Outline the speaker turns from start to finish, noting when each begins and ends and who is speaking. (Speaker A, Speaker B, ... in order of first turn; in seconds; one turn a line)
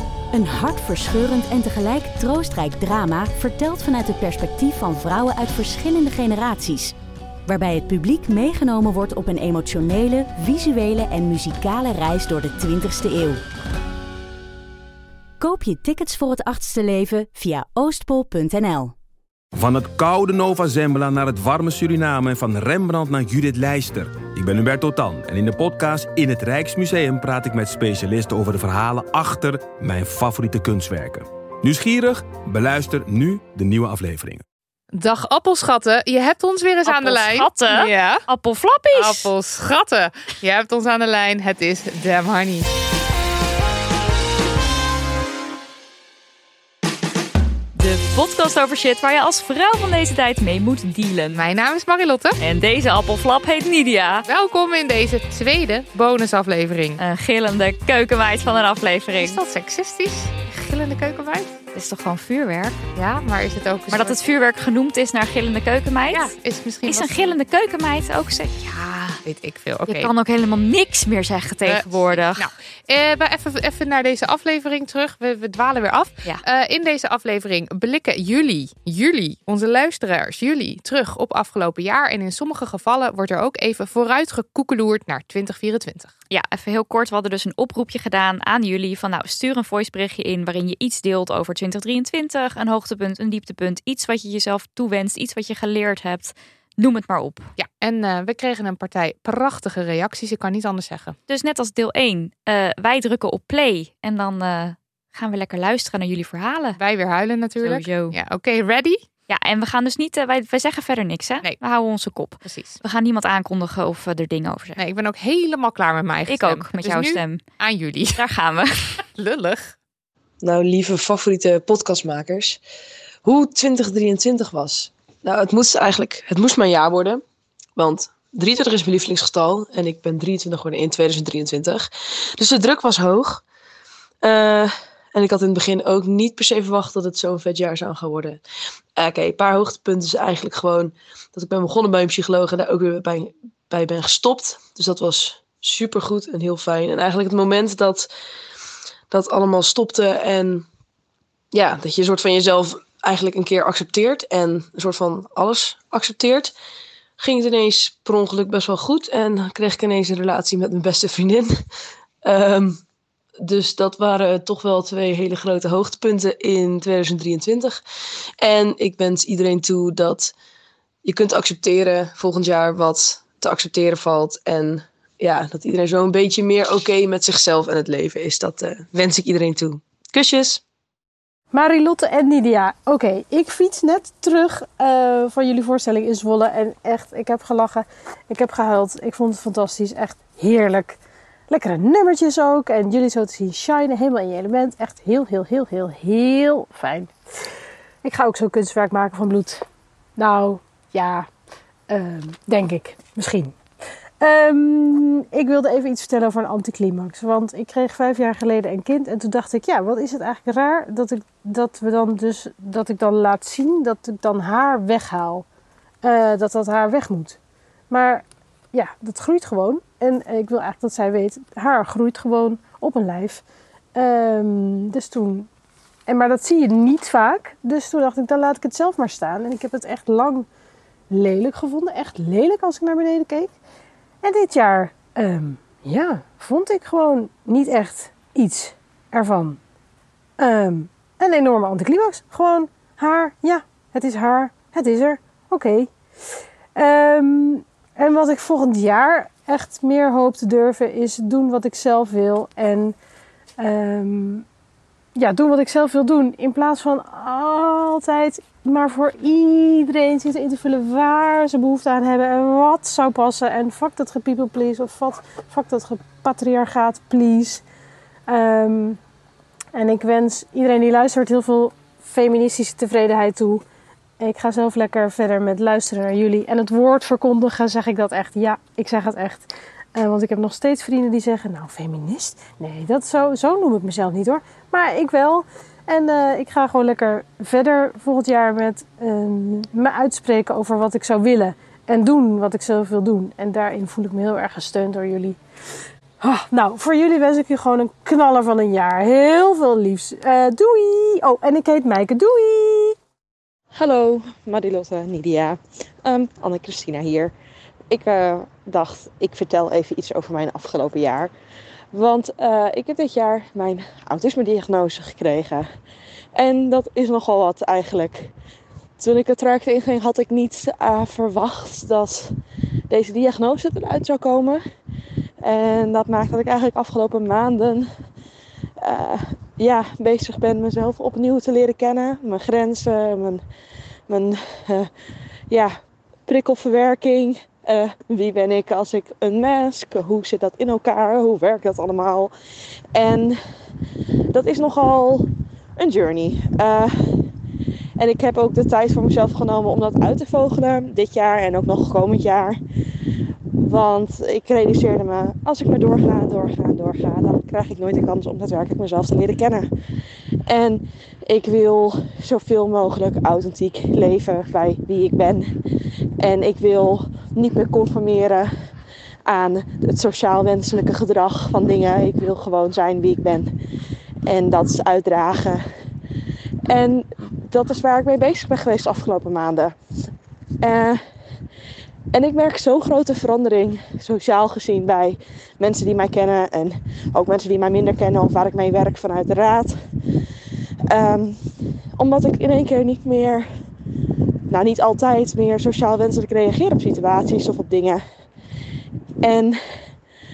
Speaker A: 0.3-6.9
Speaker A: 7.5-13.4
Speaker A: 15.4-18.9
Speaker B: 19.5-34.4
Speaker C: 34.9-38.2
Speaker A: 36.9-37.4
Speaker D: 37.4-37.7
Speaker D: 38.3-38.8
Speaker C: 38.9-42.7
Speaker D: 47.8-51.3
Speaker C: 51.3-52.4
Speaker D: 52.4-54.2
Speaker C: 54.3-57.0
Speaker D: 57.0-59.3
Speaker C: 59.1-61.6
Speaker D: 61.8-62.8
Speaker C: 62.9-64.2
Speaker D: 63.9-66.2
Speaker A: 63.9-64.2
Speaker C: 66.1-67.4
Speaker A: 66.9-67.3
Speaker D: 67.1-69.1
Speaker C: 69.2-70.1
Speaker D: 69.9-72.3
Speaker C: 71.6-86.2
Speaker A: 71.7-72.4
Speaker D: 86.3-97.5
Speaker C: 97.6-101.2
Speaker D: 101.3-106.8
Speaker C: 106.8-109.0
Speaker D: 109.3-114.7
Speaker C: 112.4-112.8
Speaker C: 114.8-118.2
Speaker D: 116.3-117.4
Speaker A: 116.5-117.2
Speaker D: 118.2-118.7
Speaker C: 119.0-119.8
Speaker E: 120.4-122.6
Speaker E: 123.2-127.2
Speaker E: 127.8-133.4
Speaker E: 134.2-138.4
Speaker E: 138.9-148.1
Speaker E: 149.1-150.6
Speaker E: 151.5-156.5
Speaker E: 157.2-161.5
Speaker E: 162.2-162.8
Speaker E: 163.4-167.8
Speaker E: 168.4-170.3
Speaker E: 171.0-180.6
Speaker F: 181.5-191.0
Speaker F: 191.5-197.1
Speaker F: 198.0-199.6
Speaker F: 200.2-201.3
Speaker F: 201.9-203.6
Speaker F: 204.2-215.4
Speaker F: 216.0-217.4
Speaker F: 217.9-223.4
Speaker F: 223.9-225.5
Speaker F: 226.1-230.5
Speaker F: 231.1-233.5
Speaker F: 234.2-239.6
Speaker F: 240.4-245.9
Speaker F: 246.7-252.9
Speaker F: 253.6-254.4
Speaker F: 255.2-267.6
Speaker F: 268.3-269.0
Speaker F: 269.7-273.6
Speaker F: 274.2-295.4
Speaker F: 296.2-302.9
Speaker G: 303.7-307.3
Speaker G: 307.9-311.3
Speaker G: 311.9-315.7
Speaker G: 316.4-318.3
Speaker G: 319.0-322.4
Speaker G: 322.9-324.6
Speaker G: 325.4-327.9
Speaker G: 328.8-333.4
Speaker G: 334.1-334.9
Speaker G: 335.5-335.7
Speaker G: 336.2-342.3
Speaker G: 342.9-343.4
Speaker G: 344.3-347.3
Speaker G: 348.0-352.6
Speaker G: 353.5-359.7
Speaker G: 360.5-365.5
Speaker G: 366.2-368.5
Speaker G: 369.2-373.5
Speaker G: 374.2-375.6
Speaker G: 376.7-379.7
Speaker G: 380.6-381.0
Speaker G: 382.1-389.8
Speaker G: 390.9-393.5
Speaker G: 394.5-398.0
Speaker G: 399.2-399.8